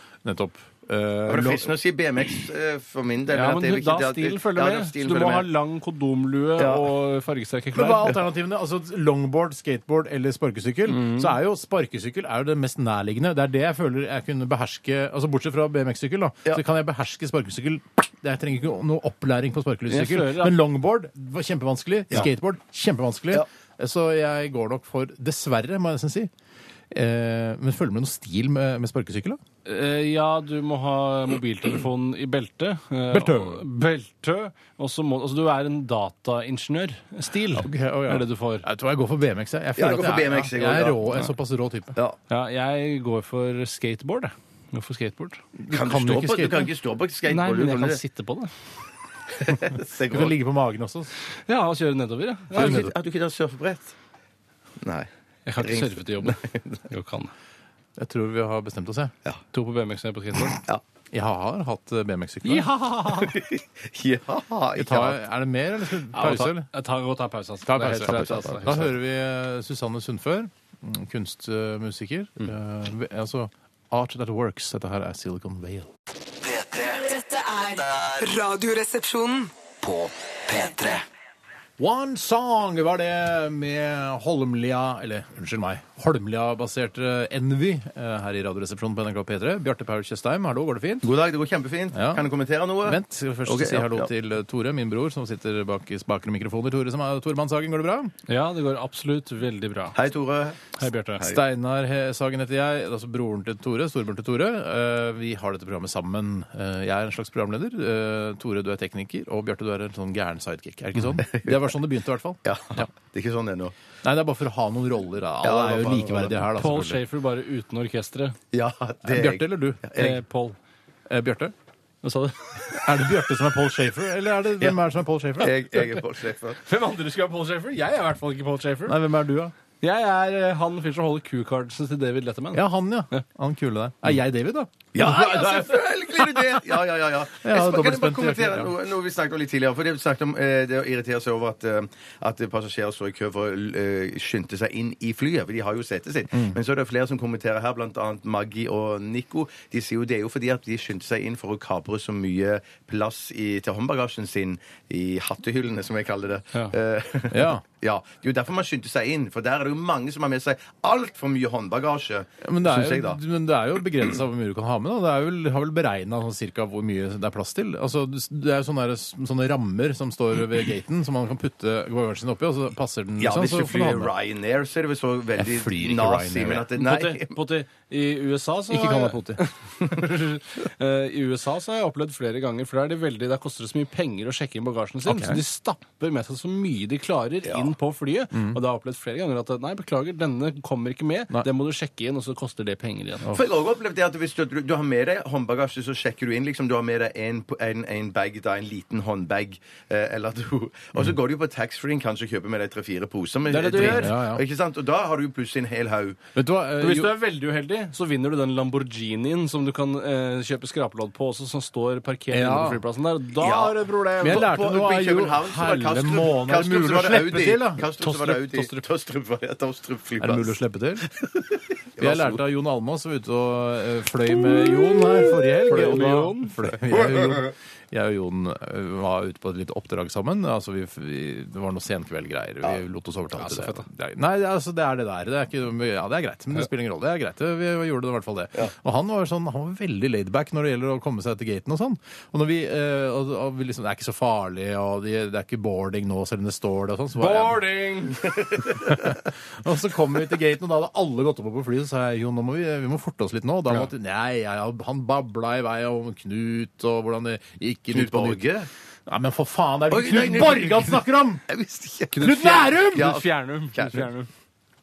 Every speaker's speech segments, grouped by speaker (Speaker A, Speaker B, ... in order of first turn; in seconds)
Speaker A: 0.2-1.7, 7.7-26.3, 26.9-29.4, 33.1-33.6, 37.5-41.9, 45.5-46.7, 50.1-51.1, 52.5-52.9, 58.0-59.1, 61.1-62.7, 64.8-66.7, 67.7-75.9, 81.8-91.1, 91.9-92.2, 92.8-98.1, 101.2-112.9, 114.0-117.0, 119.0-119.8, 121.1-121.5, 122.7-126.0, 128.8-129.5, 132.5-134.9, 137.4-138.7, 146.3-146.6, 157.3-157.6, 162.4-174.1, 175.3-176.7, 178.7-179.4, 185.0-185.4, 188.3-188.6, 203.7-204.4, 206.3-207.1, 212.3-212.8, 214.2-218.2, 220.2-221.1, 222.0-247.6, 248.8-258.4, 259.1-261.4, 262.1-263.2
Speaker B: 1.3-5.5, 6.6-6.9, 39.8-41.1, 45.7-48.0, 49.4-50.3, 52.5-53.9, 54.8-56.8, 60.5-60.8, 63.1-65.2, 68.0-68.9, 91.0-94.1, 99.9-101.4, 111.1-111.5, 112.4-113.7, 115.4-116.4, 118.5-120.2, 125.4-126.6, 134.9-163.2, 173.2-177.3, 193.3-206.2, 213.4-220.5, 221.9-222.4, 227.0-227.4, 248.4-248.8, 257.9-258.7, 259.9-264.1
Speaker C: 3.3-8.1, 10.9-11.3, 19.9-20.5, 29.6-38.6, 42.3-45.4, 47.3-48.5, 51.5-52.8, 55.5-57.3, 59.5-60.6, 62.4-63.4, 66.1-68.9, 98.3-100.0, 100.8-101.2, 116.5-118.4, 119.9-120.6, 122.0-122.9, 126.6-129.0, 129.8-133.2, 135.0-136.0, 176.8-193.3, 203.5-204.1, 206.8-214.5, 218.1-218.8, 224.6-226.8, 233.3-233.8, 247.2-248.5, 262.1-264.3
Speaker D: 76.4-77.2, 77.8-78.1, 79.8-81.0
Speaker E: 77.1-79.5